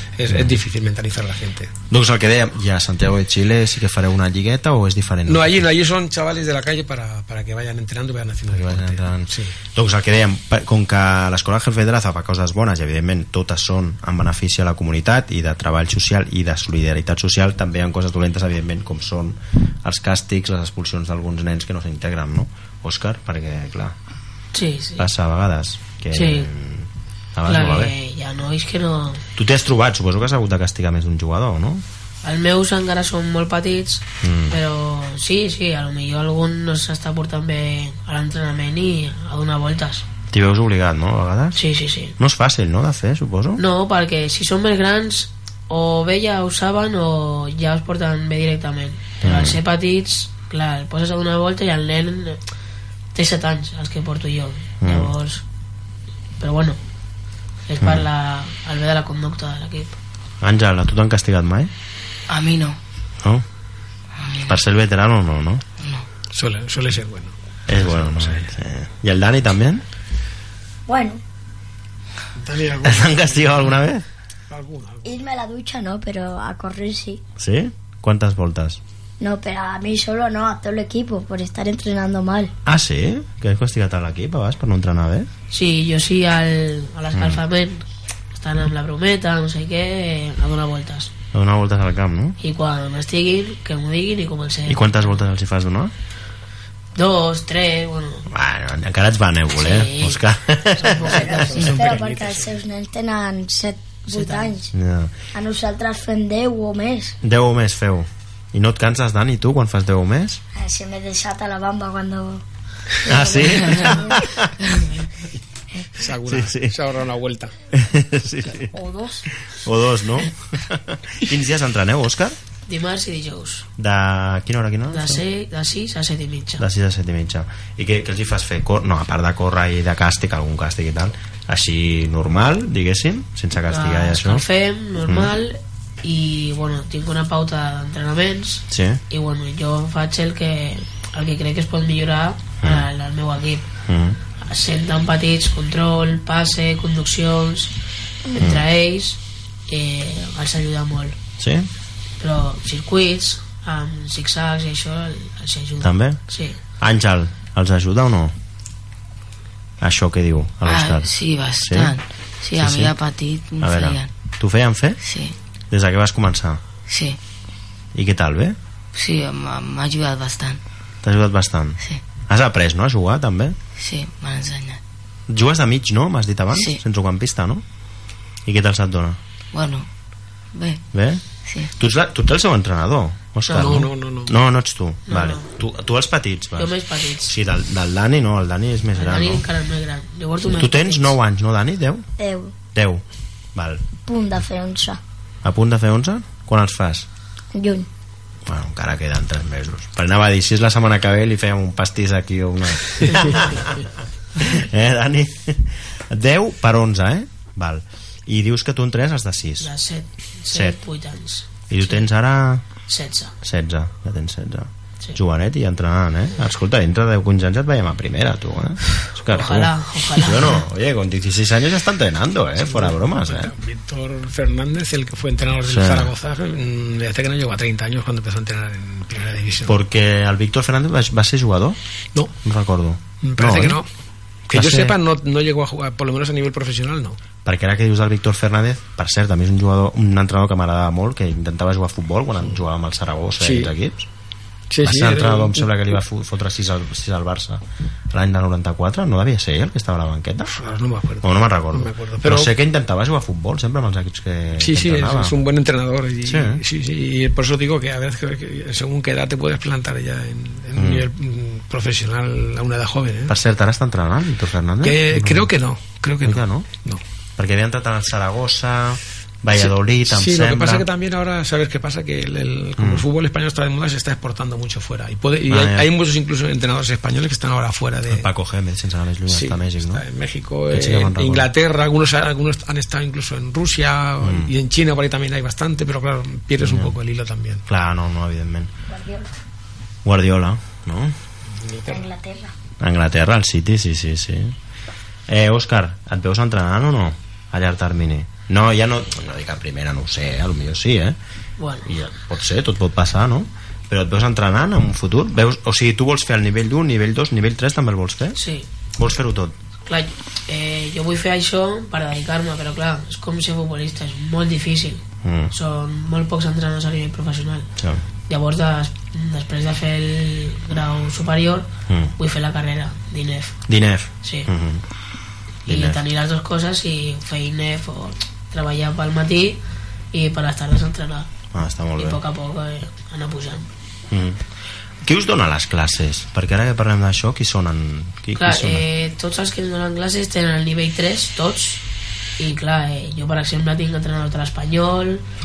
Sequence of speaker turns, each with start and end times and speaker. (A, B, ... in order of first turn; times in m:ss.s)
0:00.2-0:01.7 A
0:01.9-0:05.6 B
0:05.3-0:09.5 A
0:08.5-0:23.9 B
0:24.5-0:25.1 C
0:25.0-0:27.9 B
0:26.1-0:26.5 C
0:27.4-0:29.2 C
0:29.4-0:31.8 B
0:32.2-0:40.0 C
0:34.2-0:34.6 B
0:40.3-0:41.6 B
0:41.5-0:42.1 C
0:42.2-0:43.6 B
0:43.6-0:52.4 C
0:49.2-0:49.6 B
0:53.1-0:55.4 C
0:54.8-0:55.1 B
0:56.4-0:56.8 C
0:57.7-1:00.0 C
0:57.8-0:58.0 B
1:00.4-1:01.7 B
1:02.3-1:02.8 D
1:04.2-1:04.6 D
1:04.4-1:05.6 B
1:06.3-1:08.5 A
1:07.7-1:09.8 B
1:10.9-1:11.2 E
1:12.4-1:13.5 A
1:12.8-1:14.0 B
1:14.5-1:15.1 A
1:15.0-1:17.2 E
1:17.4-1:18.8 B
1:19.2-1:22.5 E
1:22.6-1:25.3 B
1:25.5-1:31.1 C
1:27.1-1:27.4 B
1:31.3-1:32.4 B
1:32.4-1:35.2 C
1:34.7-1:35.9 B
1:37.0-1:38.3 C
1:38.3-1:41.4 B
1:39.6-1:41.9 C
1:41.3-1:42.5 A
1:41.3-1:44.7 E
1:44.1-1:44.5 C
1:44.7-1:45.1 B
1:45.3-1:47.2 E
1:47.2-1:50.4 B
1:50.5-1:52.4 E
1:53.0-1:54.3 E
1:53.0-1:54.5 B
1:56.0-1:57.5 A
1:56.2-1:56.7 B
1:57.7-1:58.7 B
1:58.7-1:59.2 E
1:59.5-2:02.4 B
2:02.7-2:03.7 C
2:03.8-2:05.2 B
2:04.9-2:06.6 C
2:06.6-2:14.4 B
2:13.7-2:23.6 C
2:15.0-2:15.3 B
2:18.7-2:19.0 B
2:22.6-2:22.9 B
2:23.9-2:24.2 B
2:24.4-2:27.7 C
2:28.3-2:31.2 C
2:28.4-2:28.6 B
2:31.4-2:31.7 B
2:32.2-2:36.6 C
2:35.8-2:36.2 B
2:36.8-2:38.3 B
2:39.8-2:41.9 B
2:40.6-2:44.1 D
2:42.6-2:42.9 B
2:43.6-2:45.0 B
2:45.0-2:45.3 D
2:45.7-2:46.6 B
2:46.9-2:47.2 D
2:47.9-2:48.6 B
2:48.9-2:50.6 D
2:51.0-2:53.6 B
2:53.8-2:54.8 D
2:55.3-2:57.6 B
2:56.5-2:56.8 D
2:58.4-2:59.2 B
2:59.5-2:59.9 D
3:00.5-3:00.8 D
3:00.9-3:01.2 B
3:01.4-3:01.7 D
3:01.7-3:09.4 B
3:03.5-3:03.8 C
3:03.5-3:04.3 A
3:05.1-3:05.5 C
3:06.6-3:07.3 C
3:08.9-3:11.2 C
3:10.5-3:12.0 B
3:12.2-3:12.5 E
3:12.7-3:13.0 B
3:13.5-3:13.8 B
3:14.0-3:15.0 E
3:15.4-3:17.1 B
3:17.5-3:17.9 E
3:18.4-3:29.7 B
3:29.6-3:32.0 C
3:30.5-3:30.8 B
3:31.7-3:32.6 B
3:32.9-3:33.3 C
3:33.4-3:43.5 B
3:39.3-3:40.6 C
3:42.6-3:49.8 A
3:45.6-3:46.1 B
3:49.6-3:51.8 B
3:52.4-3:53.8 B
3:53.2-3:53.9 A
3:54.5-3:57.2 A
3:54.5-3:55.0 B
3:57.4-4:04.1 B
4:03.4-4:03.7 A
4:04.7-4:05.7 A
4:04.8-4:10.5 B
4:10.5-4:12.5 A
4:11.2-4:15.4 B
4:14.6-4:23.3 A
4:16.2-4:16.6 B
4:20.7-4:21.1 B
4:23.3-4:25.5 B
4:24.8-4:27.0 A
4:26.2-4:26.7 B
4:27.4-4:30.8 B
4:29.5-4:38.2 A
4:32.8-4:33.0 B
4:35.5-4:35.9 B
4:38.1-4:40.0 B
4:39.3-4:47.6 A
4:40.7-4:41.5 B
4:44.2-4:44.5 B
4:46.6-4:47.0 B
4:47.7-4:48.7 B
4:48.9-4:49.3 E
4:50.0-4:51.1 B
4:51.6-4:52.0 A
4:51.9-4:52.5 E
4:52.8-4:54.6 B
4:55.3-5:01.2 B
5:01.6-5:01.9 C
5:01.8-5:08.4 B
5:08.4-5:08.7 C
5:09.0-5:09.5 B
5:09.8-5:17.7 C
5:15.2-5:15.5 B
5:17.8-5:18.0 B
5:18.3-5:23.6 C
5:21.9-5:22.1 B
5:23.7-5:24.8 B
5:24.2-5:24.5 C
5:25.7-5:26.0 B
5:25.7-5:29.6 C
5:30.1-5:31.3 C
5:31.5-5:32.2 B
5:32.0-5:33.7 C
5:34.1-5:34.4 B
5:35.0-5:38.8 B
5:38.3-5:41.8 C
5:42.4-5:45.2 C